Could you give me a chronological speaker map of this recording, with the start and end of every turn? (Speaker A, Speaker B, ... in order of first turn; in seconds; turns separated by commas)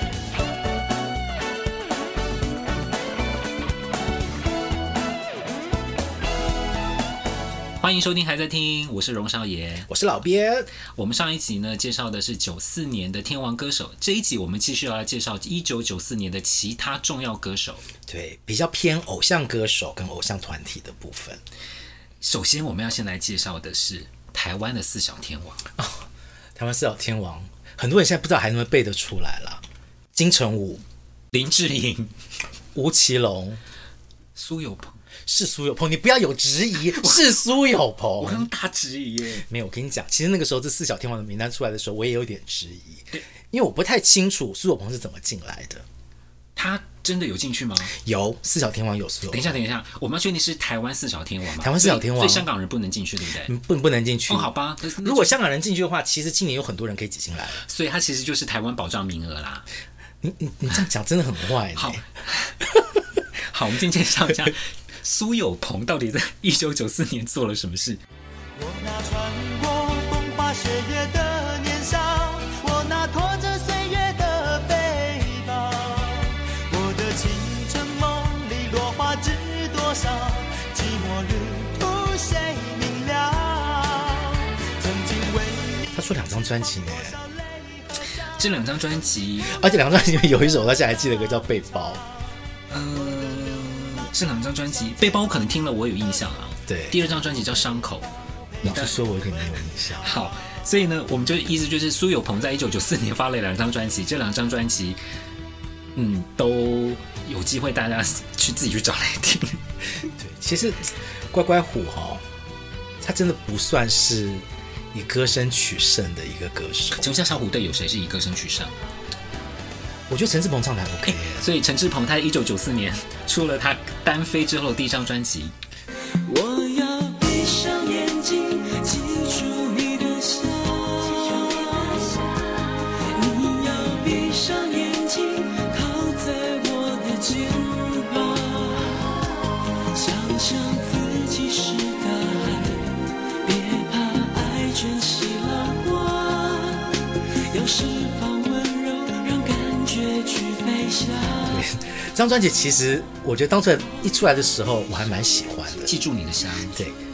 Speaker A: 7.8-9.9, Speaker B: 9.9-10.7, Speaker A: 10.9-17.8, Speaker B: 18.1-21.4, Speaker A: 22.2-25.6, Speaker B: 25.8-29.6, Speaker B: 30.1-30.8, Speaker A: 31.3-32.1, Speaker B: 32.7-33.6, Speaker A: 34.3-35.0, Speaker B: 35.3-38.5, Speaker A: 36.8-39.5, Speaker B: 39.4-45.8, Speaker A: 46.5-47.9, Speaker B: 47.9-49.6, Speaker A: 49.3-53.5, Speaker B: 51.6-52.5, Speaker B: 53.4-57.6, Speaker A: 54.3-55.3, Speaker A: 57.6-59.7, Speaker B: 60.2-62.0, Speaker A: 61.7-62.6, Speaker A: 63.4-68.0, Speaker C: 68.5-85.9, Speaker B: 85.9-87.2, Speaker A: 88.1-89.5, Speaker B: 89.4-92.0, Speaker A: 92.7-98.1, Speaker B: 96.7-97.0, Speaker A: 98.6-99.0, Speaker B: 98.6-100.1, Speaker A: 100.0-105.0, Speaker A: 105.9-109.6, Speaker B: 110.0-112.2, Speaker B: 113.0-117.1, Speaker A: 116.9-118.7, Speaker B: 120.1-121.4, Speaker A: 121.0-125.5, Speaker C: 126.2-139.2, Speaker C: 139.9-151.6, Speaker B: 151.5-155.9, Speaker A: 155.9-156.8